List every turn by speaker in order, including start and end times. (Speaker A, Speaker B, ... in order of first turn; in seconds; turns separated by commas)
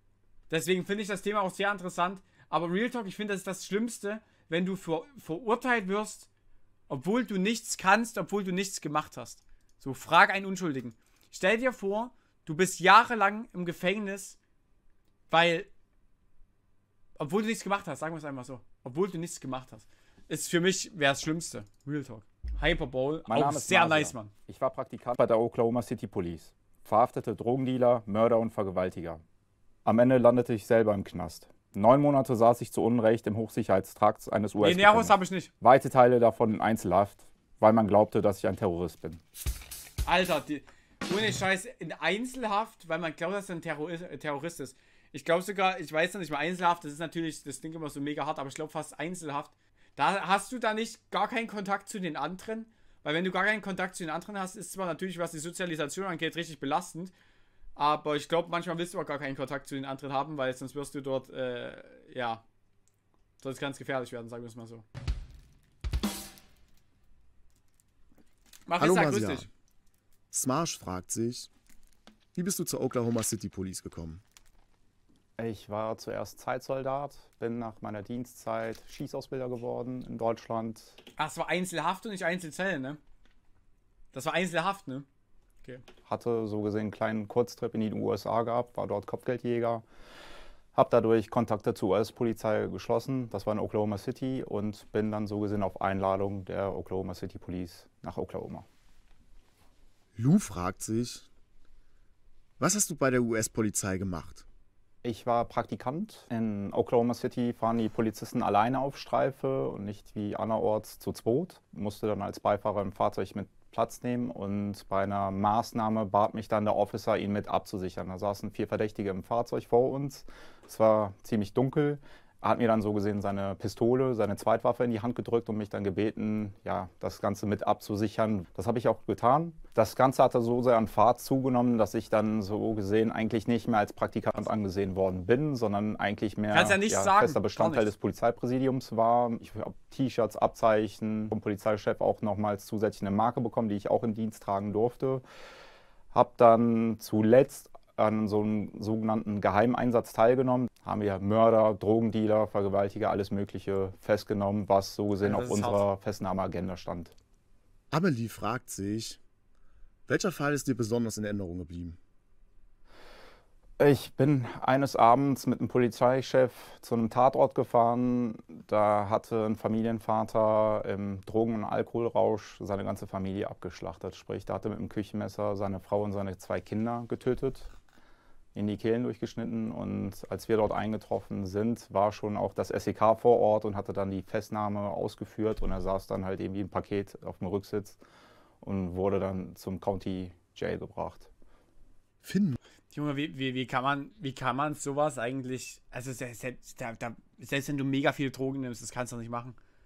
Speaker A: 0.5-6.3, Speaker A: 6.9-14.4, Speaker A: 15.3-15.7, Speaker A: 17.2-24.3, Speaker B: 23.3-29.2, Speaker B: 29.8-39.2, Speaker A: 34.6-35.5, Speaker A: 40.0-57.1, Speaker A: 57.8-62.4, Speaker A: 63.4-64.8, Speaker A: 68.7-69.5, Speaker C: 68.8-69.5, Speaker C: 70.3-71.5, Speaker C: 72.3-74.2, Speaker B: 75.4-81.0, Speaker A: 81.2-83.0, Speaker A: 84.1-85.0, Speaker B: 86.0-89.8, Speaker B: 90.7-98.7, Speaker C: 100.2-101.3, Speaker C: 102.6-104.4, Speaker B: 105.0-145.2, Speaker A: 136.5-137.9, Speaker B: 146.1-157.1, Speaker A: 155.2-155.8, Speaker C: 157.9-159.2, Speaker C: 160.1-162.0, Speaker B: 163.8-177.7, Speaker B: 178.5-188.0, Speaker B: 188.6-191.3, Speaker C: 192.2-192.6, Speaker A: 192.9-199.6